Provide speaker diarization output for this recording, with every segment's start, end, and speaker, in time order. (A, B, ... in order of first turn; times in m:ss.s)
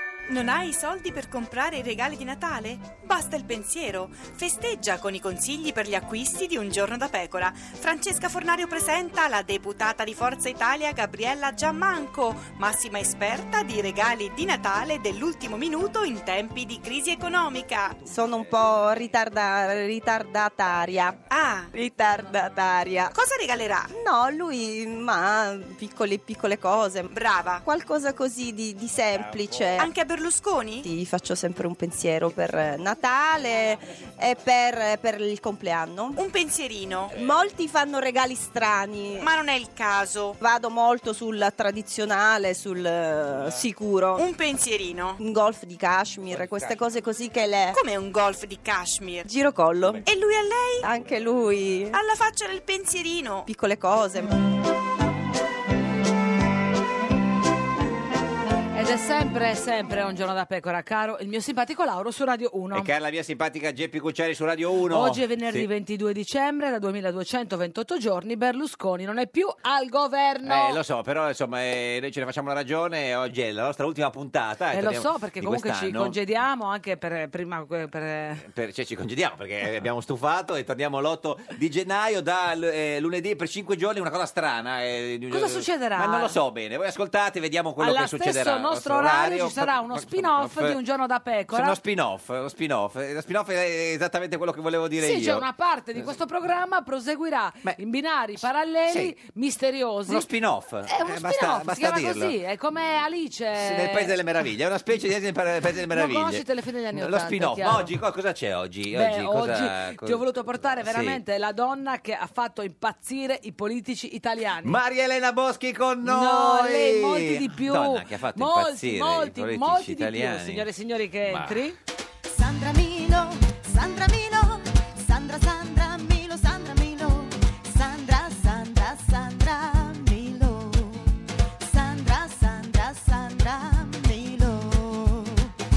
0:00.3-0:18.0 A
0:18.0-0:21.2 B
0:21.3-0:21.7 A
0:21.7-0:23.1 B
0:23.1-0:23.9 A
0:23.9-0:27.1 B
0:27.1-0:27.6 A
0:27.6-0:29.9 B
0:29.2-0:29.5 C
0:29.8-0:30.8 A
0:30.8-0:36.2 B
0:36.2-0:37.1 A
0:37.1-0:39.3 B
0:39.2-0:40.4 A
0:40.4-0:44.3 B
0:44.2-0:45.2 A
0:45.2-0:47.8 B
0:47.7-0:49.2 A
0:49.2-0:50.0 B
0:50.0-0:50.8 A
0:50.8-0:52.0 B
0:51.9-0:53.5 A
0:53.4-0:54.3 B
0:58.7-1:02.9 D
1:02.7-1:05.7 C
1:04.9-1:10.8 D
1:10.4-1:16.2 C
1:14.7-1:18.4 D
1:18.4-1:30.8 C
1:25.3-1:26.3 D
1:27.8-1:31.8 D
1:31.5-1:35.4 C
1:35.0-1:40.3 D
1:38.9-1:39.1 C
1:40.1-1:42.3 C
1:40.9-1:44.1 D
1:43.6-1:50.2 C
1:45.9-1:47.9 D
1:48.9-1:54.8 D
1:50.8-1:51.2 C
1:54.6-2:00.7 C
1:56.0-2:01.8 D
2:01.2-2:01.7 C
2:02.3-2:15.4 E